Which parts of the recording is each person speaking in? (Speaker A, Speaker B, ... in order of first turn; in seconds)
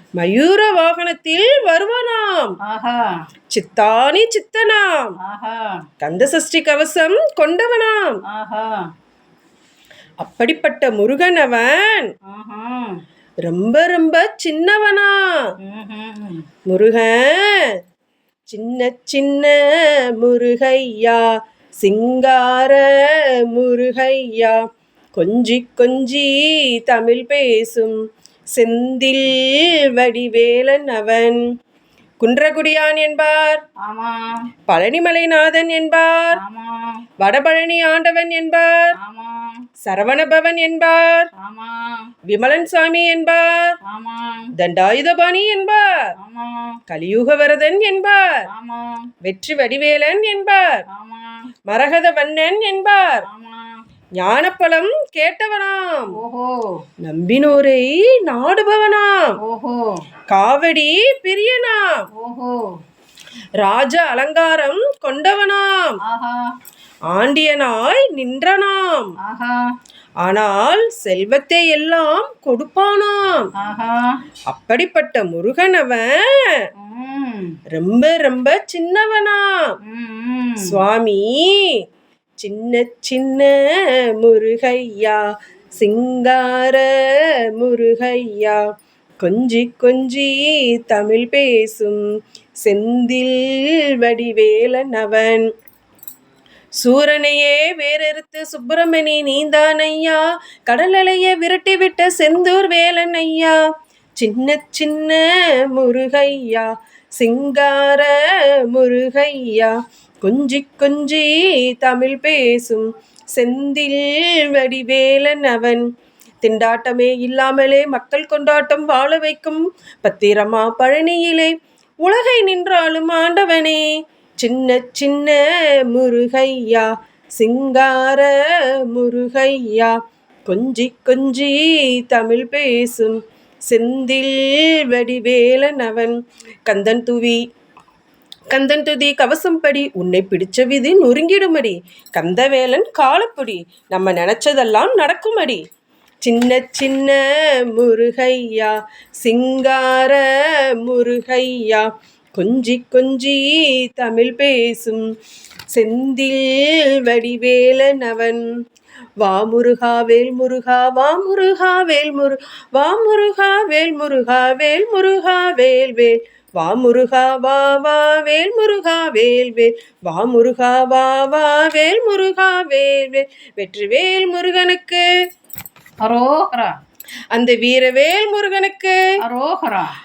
Speaker A: 0.2-2.5, 3.5-5.2, 6.0-8.2, 10.2-12.1, 13.4-15.3, 16.7-17.8, 18.5-21.2, 21.8-24.6, 25.1-28.0, 28.6-31.4, 32.2-33.6, 34.7-36.4, 37.2-38.9, 39.8-41.3, 42.3-43.8, 44.5-45.9, 46.9-48.5, 49.2-50.8, 51.7-53.2, 54.2-56.1, 57.0-59.4, 60.3-62.1, 63.6-66.0, 67.1-69.1, 70.2-73.5, 74.5-76.6, 77.7-79.5, 80.6-81.8, 82.4-85.2, 85.8-88.6, 89.2-92.0, 92.6-95.5, 96.8-103.6, 104.2-115.9, 116.4-123.8, 124.4-130.0, 130.5-137.4, 138.5-145.6, 146.2-155.1, 155.7-158.4, 159.2-175.1, 177.3-179.0
Speaker B: 2.6-3.2, 5.2-5.8, 8.3-8.9, 12.3-13.0, 15.6-16.4, 33.8-34.5, 36.4-37.0, 39.0-39.6, 41.4-42.1, 43.9-44.5, 46.2-46.8, 48.5-49.1, 50.9-51.5, 53.3-53.8, 56.2-56.8, 59.4-60.0, 62.1-62.7, 66.1-66.5, 69.2-69.7, 73.6-74.2, 76.8-77.6, 79.8-80.8, 176.0-176.8, 179.2-179.9